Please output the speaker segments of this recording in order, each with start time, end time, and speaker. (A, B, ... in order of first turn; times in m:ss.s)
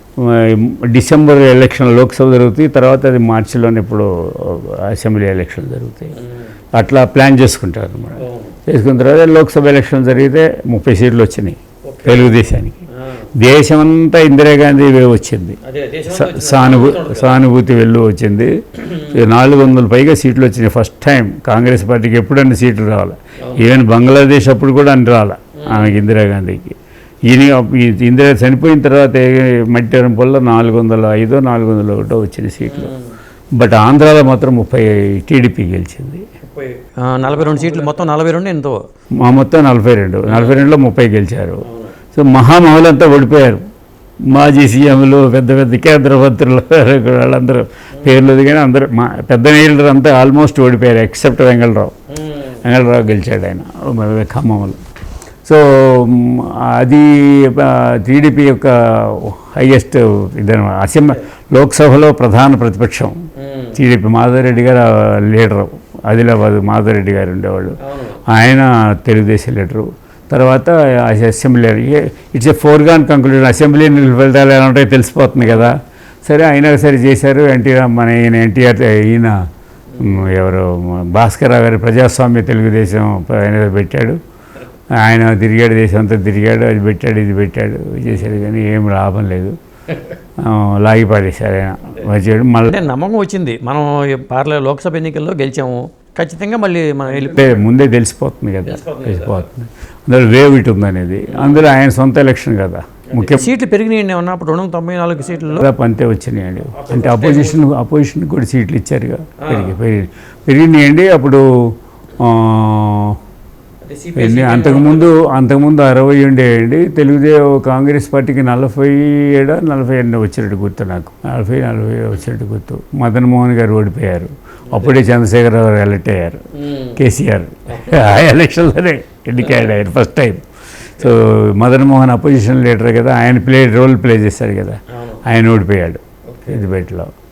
0:00.2-0:06.1 A
0:06.2-0:06.5 B
0:06.8-0:12.8 A
0:08.2-0:08.6 B
0:11.9-0:12.4 B
0:12.9-0:13.3 B
0:13.4-0:15.6 A
0:15.6-0:17.5 B
0:16.1-0:26.8 A
0:25.6-0:26.0 B
0:27.3-0:32.9 A
0:32.6-0:33.1 B
0:33.6-0:36.2 A
0:36.4-0:38.8 B
0:37.6-0:37.9 A
0:39.2-0:43.6 A
0:40.3-0:40.7 B
0:41.6-0:41.9 B
0:44.3-0:51.9 A
0:52.1-0:52.6 B
0:52.6-0:54.8 A
0:55.4-1:03.2 A
1:03.4-1:03.8 B
1:03.7-1:07.8 A
1:07.8-1:08.2 B
1:08.3-1:19.4 A
1:19.9-1:20.2 B
1:20.0-1:24.2 A
1:25.0-1:29.6 A
1:30.4-1:32.8 A
1:32.6-1:37.6 B
1:37.2-1:43.5 A
1:38.6-1:39.4 B
1:41.3-1:41.7 B
1:43.1-1:45.7 B
1:45.4-1:53.2 A
1:46.7-1:47.6 B
1:49.4-1:49.7 B
1:53.8-1:55.1 B
1:54.2-2:06.4 A
2:04.7-2:05.0 B
2:06.5-2:07.0 B
2:07.0-2:10.4 A
2:07.7-2:08.1 B
2:11.0-2:17.1 A
2:14.9-2:15.2 B
2:16.3-2:16.7 B